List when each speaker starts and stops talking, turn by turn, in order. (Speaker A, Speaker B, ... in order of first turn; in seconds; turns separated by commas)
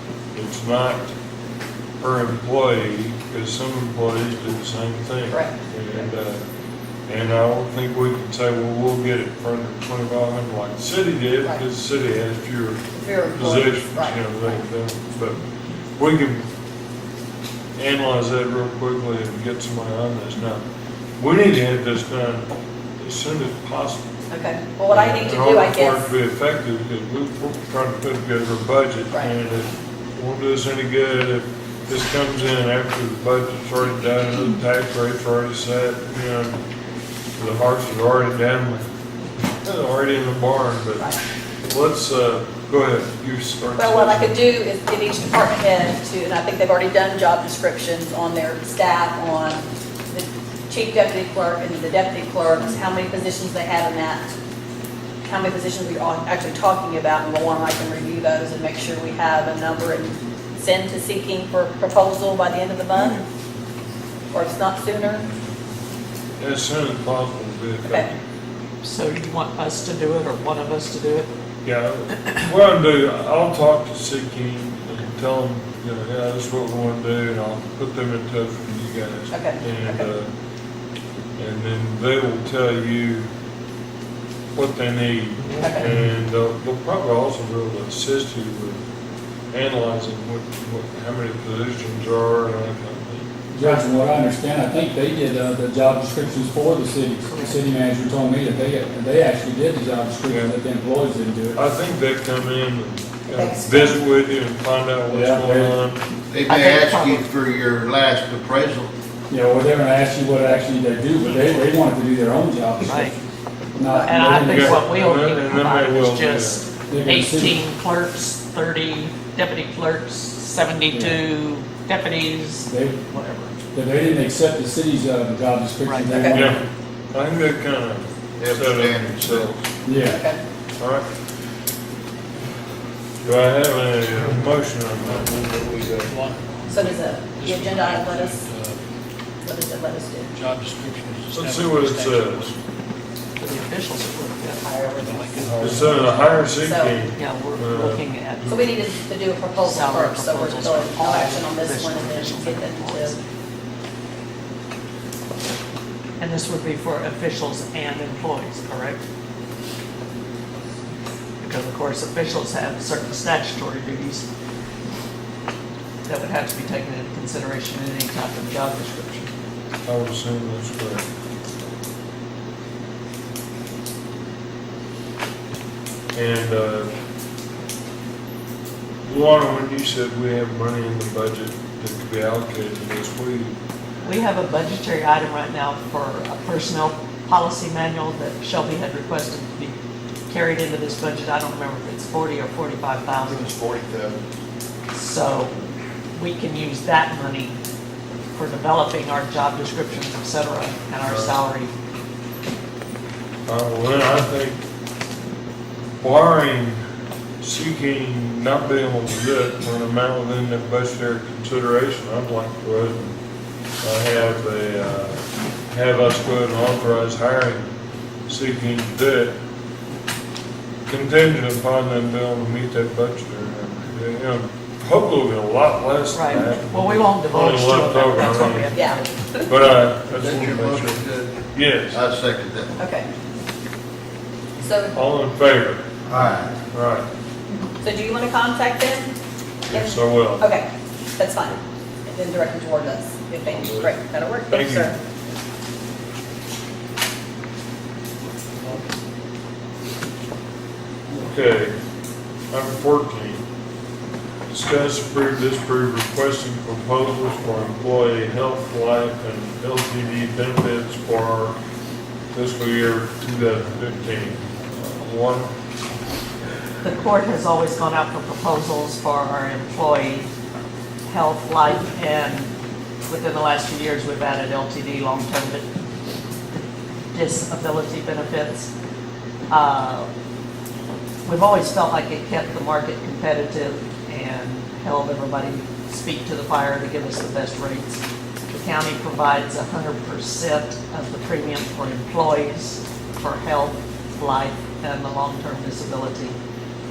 Speaker A: 0.3-1.1, Speaker A: 2.0-6.4, Speaker A: 7.1-15.4, Speaker B: 12.9-14.6, Speaker A: 16.0-16.5, Speaker A: 17.8-20.6, Speaker A: 21.2-24.1, Speaker B: 24.3-26.1, Speaker A: 24.9-36.6, Speaker A: 37.4-38.9, Speaker A: 39.6-41.1, Speaker A: 41.7-44.4, Speaker B: 43.8-54.3, Speaker B: 55.2-63.2, Speaker B: 64.3-65.3, Speaker A: 66.4-68.2, Speaker C: 68.8-71.3, Speaker A: 71.6-80.3, Speaker B: 79.3-80.1, Speaker A: 81.4-83.3, Speaker A: 84.5-88.8, Speaker B: 85.6-85.9, Speaker A: 89.5-93.3, Speaker D: 93.5-101.6, Speaker C: 97.3-97.6, Speaker A: 100.3-100.5, Speaker A: 101.5-106.0, Speaker B: 103.3-104.0, Speaker D: 105.1-105.8, Speaker E: 106.3-108.9, Speaker C: 106.5-107.2, Speaker D: 109.3-113.2, Speaker C: 112.8-113.2, Speaker D: 113.8-114.8, Speaker B: 113.9-114.2, Speaker C: 114.0-123.5, Speaker A: 114.2-116.7, Speaker D: 116.9-117.6, Speaker D: 120.9-121.2, Speaker D: 122.7-123.0, Speaker D: 123.7-126.6, Speaker C: 125.8-126.3, Speaker A: 126.3-129.6, Speaker E: 128.4-129.5, Speaker D: 129.8-130.2, Speaker B: 130.0-130.4, Speaker A: 130.8-131.1, Speaker A: 133.2-135.4, Speaker F: 135.0-138.8, Speaker B: 136.7-138.4, Speaker B: 139.4-140.3, Speaker F: 140.3-142.6, Speaker A: 141.3-142.5, Speaker C: 143.4-144.6, Speaker B: 144.6-147.0, Speaker F: 145.0-146.4, Speaker A: 145.5-148.7, Speaker C: 147.2-148.7, Speaker B: 148.5-153.2, Speaker C: 149.6-153.2, Speaker C: 156.2-159.0, Speaker C: 161.4-164.3, Speaker C: 166.1-169.3, Speaker A: 169.8-171.0, Speaker A: 176.1-176.9, Speaker A: 179.0-183.6, Speaker C: 184.1-189.8, Speaker C: 190.3-193.5, Speaker E: 193.4-194.2, Speaker C: 194.9-195.6, Speaker C: 196.2-197.6, Speaker C: 198.3-201.7, Speaker A: 201.0-201.4, Speaker A: 203.5-204.6, Speaker A: 206.0-206.8, Speaker A: 207.4-213.2, Speaker A: 213.8-217.7, Speaker A: 218.3-219.3, Speaker A: 220.9-228.8, Speaker C: 226.1-229.1, Speaker B: 228.7-229.5, Speaker A: 229.5-232.0, Speaker E: 230.1-232.8, Speaker B: 232.8-233.1, Speaker B: 234.6-234.9, Speaker A: 234.9-235.8, Speaker E: 236.1-236.6, Speaker A: 236.7-237.1, Speaker B: 237.8-239.1, Speaker B: 239.7-244.9, Speaker A: 239.7-240.5, Speaker A: 243.5-244.0, Speaker A: 244.5-244.9, Speaker A: 251.2-251.8, Speaker A: 252.5-253.4, Speaker A: 254.5-261.6, Speaker A: 262.3-265.5, Speaker C: 266.8-270.3, Speaker C: 271.1-272.5, Speaker C: 273.1-275.6, Speaker C: 277.1-278.7, Speaker C: 279.5-280.1, Speaker C: 281.2-296.4